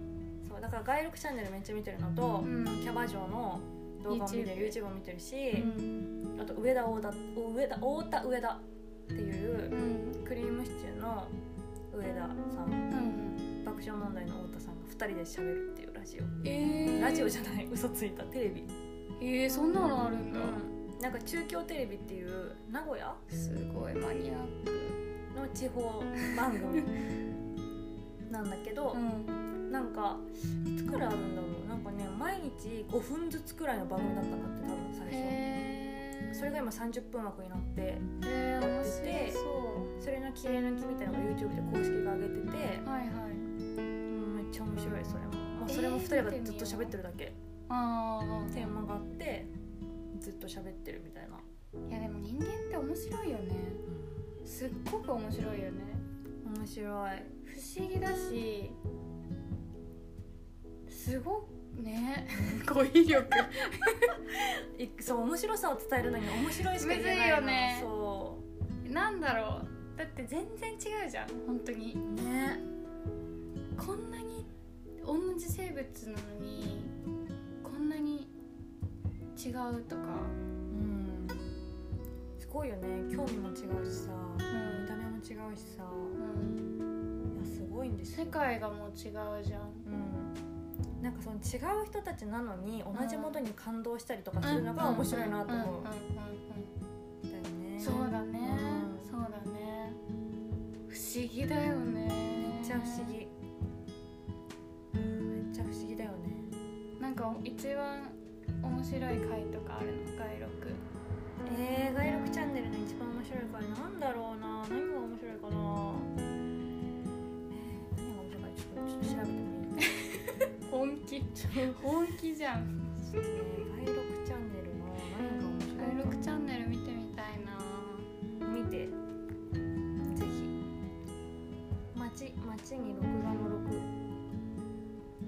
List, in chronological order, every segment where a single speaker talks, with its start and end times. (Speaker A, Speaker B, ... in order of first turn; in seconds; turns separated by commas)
Speaker A: 0.4-5.8, Speaker B: 2.4-2.8, Speaker B: 4.1-4.8, Speaker B: 5.5-5.9, Speaker A: 6.4-11.3, Speaker B: 9.7-10.2, Speaker A: 11.9-12.9, Speaker B: 12.9-13.4, Speaker A: 13.6-16.4, Speaker B: 16.4-17.3, Speaker A: 16.9-18.7, Speaker B: 19.2-20.6, Speaker A: 20.3-23.2, Speaker B: 23.3-25.0, Speaker A: 25.3-26.9, Speaker A: 28.3-29.0, Speaker B: 28.9-29.4, Speaker A: 29.7-35.4, Speaker B: 35.1-36.6, Speaker A: 36.3-38.1, Speaker B: 38.2-39.9, Speaker A: 38.6-39.4, Speaker A: 40.0-42.9, Speaker B: 42.8-43.5, Speaker A: 44.1-47.4, Speaker B: 45.7-47.0, Speaker B: 47.7-48.8, Speaker A: 48.5-49.5, Speaker A: 50.1-51.4, Speaker B: 51.9-53.8, Speaker A: 53.9-54.2, Speaker B: 54.4-56.0, Speaker A: 56.4-57.4, Speaker B: 57.4-58.8, Speaker B: 60.9-64.2, Speaker A: 62.4-62.6, Speaker A: 64.3-68.4, Speaker B: 66.6-67.9, Speaker B: 68.8-72.0, Speaker A: 72.1-72.6, Speaker B: 73.8-74.5, Speaker B: 75.0-77.0, Speaker B: 77.6-78.3, Speaker B: 79.3-80.3, Speaker A: 80.7-81.5, Speaker A: 82.4-86.2, Speaker B: 84.5-84.9, Speaker B: 86.2-86.8, Speaker A: 87.3-88.4, Speaker B: 88.1-89.8, Speaker A: 89.8-90.4, Speaker A: 91.0-95.9, Speaker B: 92.9-93.4, Speaker B: 94.4-96.7, Speaker A: 97.3-99.1, Speaker B: 97.8-100.0, Speaker B: 100.9-103.1, Speaker A: 102.4-103.3, Speaker A: 104.9-106.5, Speaker B: 107.0-110.8, Speaker A: 111.4-116.1, Speaker A: 117.5-119.9, Speaker B: 120.1-123.6, Speaker A: 121.4-121.8, Speaker A: 123.1-126.2, Speaker B: 125.8-128.1, Speaker A: 128.4-128.9, Speaker A: 130.1-130.5, Speaker A: 131.9-133.9